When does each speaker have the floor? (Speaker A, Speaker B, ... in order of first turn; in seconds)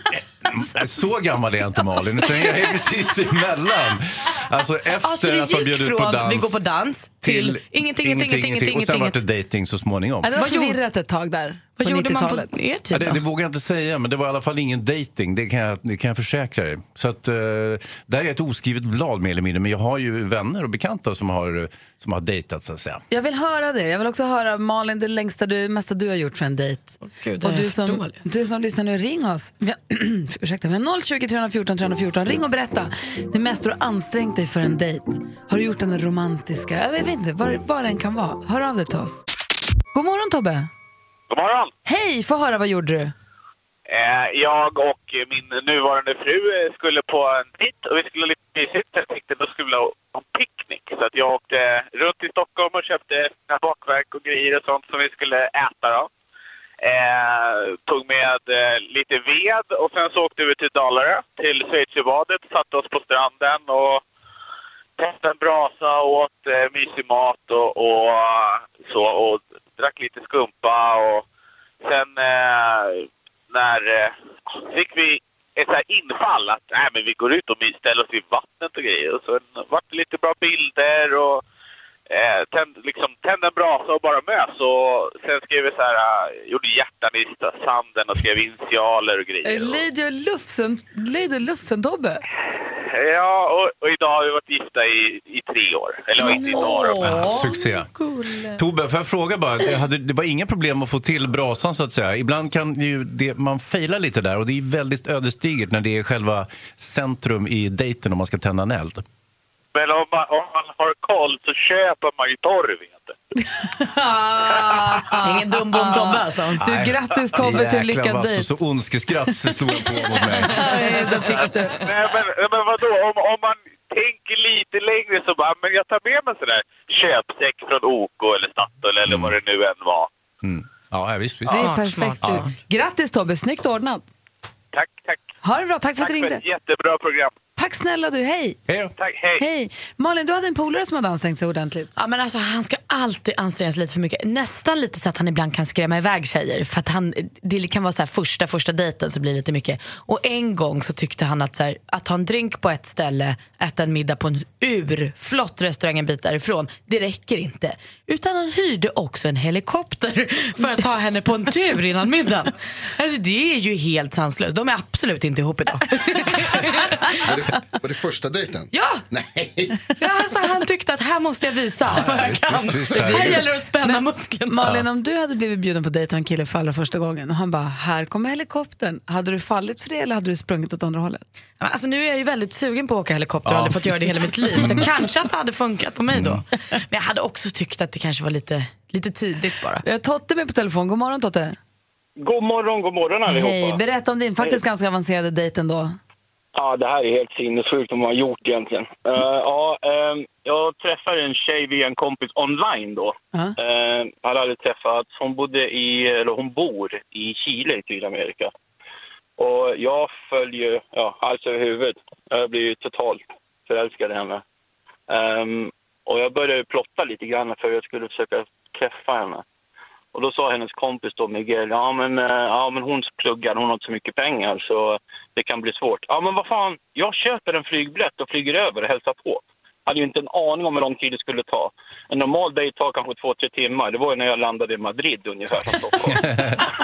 Speaker A: 0.4-6.6, 7.2-10.4, 12.9-23.0, 97.0-97.9, 98.6-109.0, 116.6-120.8, 129.1-129.4, 130.4-132.4, 138.7-138.9, 171.8-173.5, 183.4-183.8, 184.6-184.9, 186.1-186.4, 236.0-236.6
Speaker B: 5.0-9.2, 10.3-10.8, 11.8-13.2, 27.0-28.2, 96.2-98.6, 115.2-116.6, 120.8-121.5, 131.5-132.5, 141.9-167.4, 168.7-169.1, 170.0-174.7, 181.6-189.8
Speaker C: 10.2-12.6, 23.1-39.2, 39.9-40.7, 41.9-43.1, 89.4-92.2, 96.2-97.5, 113.6-118.5, 120.4-121.8, 131.5-134.1, 135.4-136.4, 137.6-138.6, 139.4-141.9, 173.8-181.2, 189.8-191.6, 193.3-196.0
Speaker D: 41.3-41.7, 43.9-56.1, 56.8-64.0, 65.0-71.2, 71.8-81.4, 82.1-89.8, 92.9-97.0, 109.8-113.1, 121.8-130.1, 134.7-135.2, 136.0-137.3, 139.0-139.4
Speaker E: 167.2-169.8
Speaker F: 192.2-193.8, 196.5-208.5, 209.4-214.4, 215.1-219.4, 220.1-236.3